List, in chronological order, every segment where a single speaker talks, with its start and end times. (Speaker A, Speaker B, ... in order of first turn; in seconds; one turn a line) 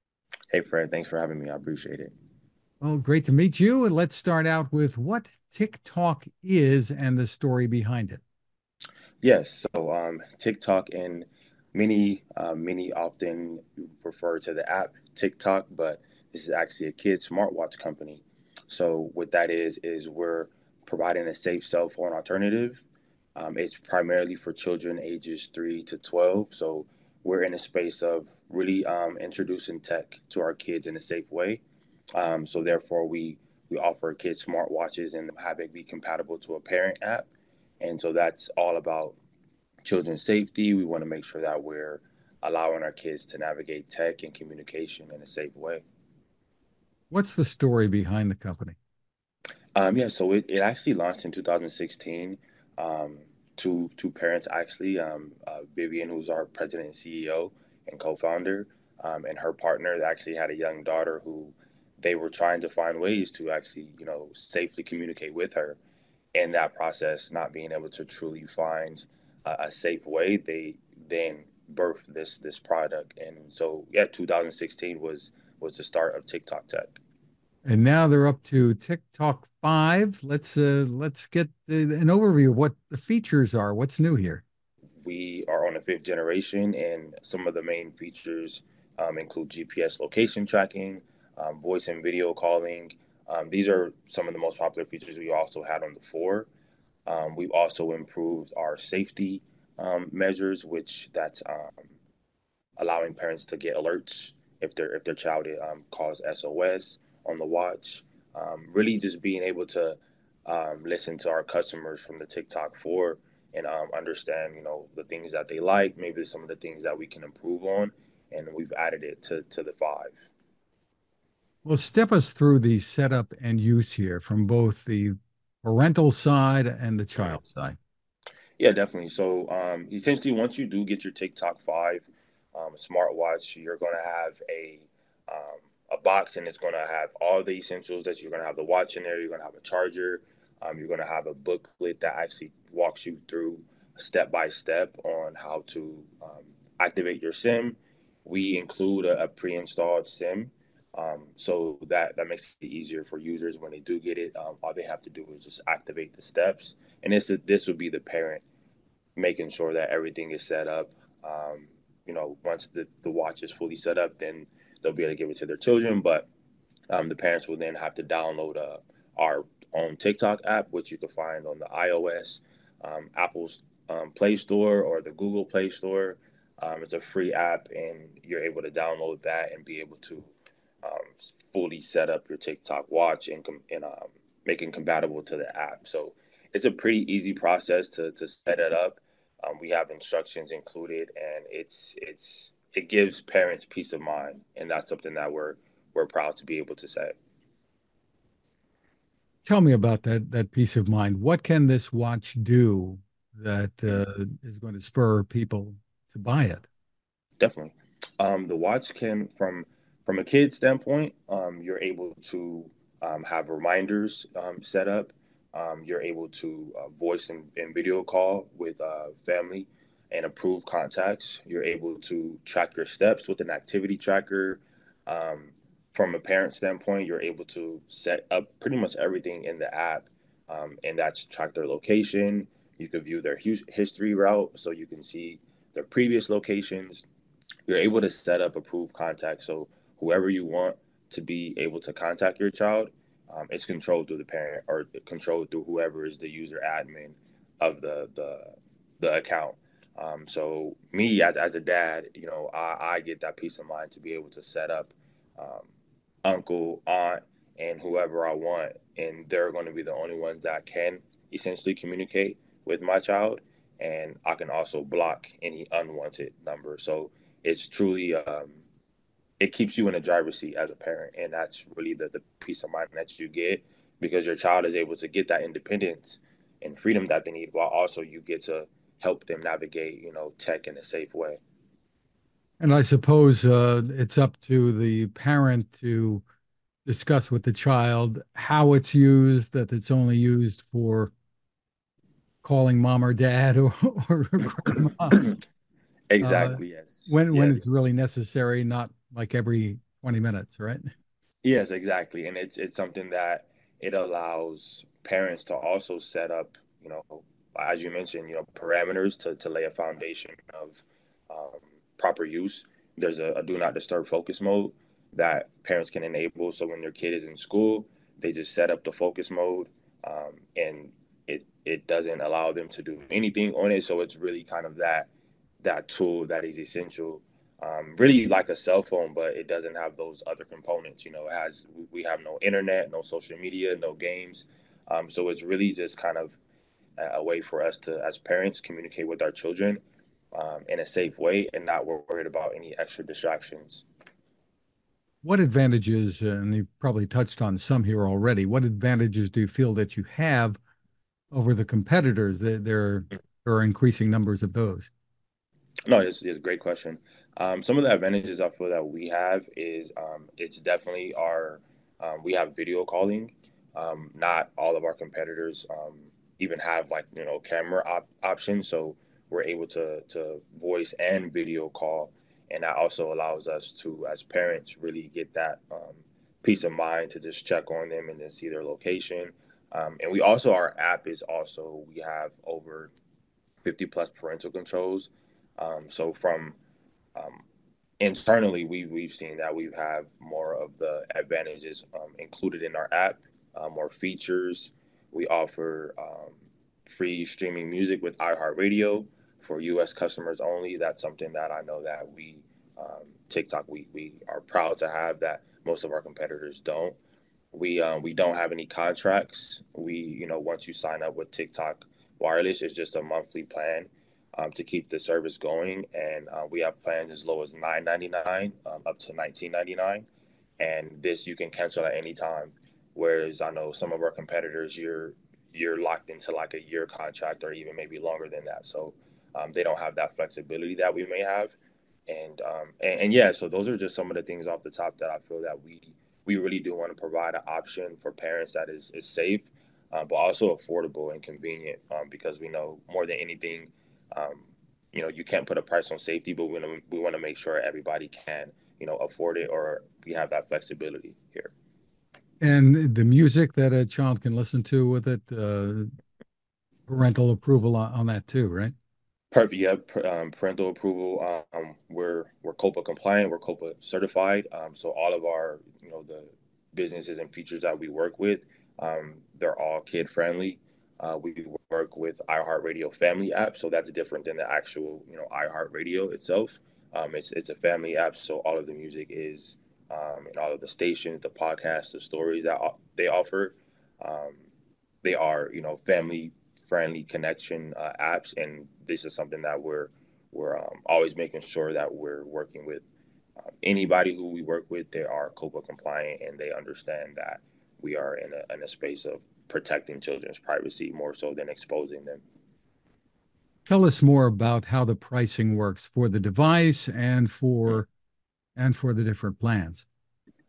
Speaker A: 0.5-2.1
Speaker B: 2.8-8.2
Speaker A: 9.2-22.8
Speaker A: 23.4-31.6
Speaker A: 32.2-37.3
Speaker A: 37.8-39.2
Speaker A: 39.9-45.8
Speaker B: 47.1-48.8
Speaker A: 49.8-65.8
Speaker A: 66.3-77.0
Speaker B: 77.7-84.4
Speaker A: 85.0-96.5
Speaker A: 97.1-101.9
Speaker A: 102.8-120.2
Speaker B: 121.7-127.8
Speaker A: 128.6-158.4
Speaker A: 159.2-166.3
Speaker A: 166.9-180.3
Speaker A: 180.8-197.1
Speaker B: 199.4-206.7
Speaker A: 207.4-237.1
Speaker A: 237.7-255.7
Speaker A: 256.2-268.6
Speaker A: 269.4-281.4
Speaker B: 282.6-286.2
Speaker B: 286.9-291.1
Speaker B: 292.4-295.3
Speaker A: 296.1-297.7
Speaker B: 296.2-300.9
Speaker A: 301.4-325.1
Speaker A: 325.6-336.4
Speaker A: 337.0-339.8
Speaker A: 340.3-343.9
Speaker B: 345.2-350.6
Speaker B: 351.3-354.9
Speaker A: 355.9-382.9
Speaker A: 383.6-386.6
Speaker A: 387.1-387.4
Speaker A: 388.0-407.0
Speaker A: 407.5-420.1
Speaker A: 420.6-431.6
Speaker A: 432.1-451.5
Speaker B: 452.4-455.9
Speaker B: 456.9-458.7
Speaker A: 459.3-484.4
Speaker A: 485.0-492.8
Speaker A: 493.5-502.2
Speaker B: 503.7-507.9
Speaker B: 508.6-509.9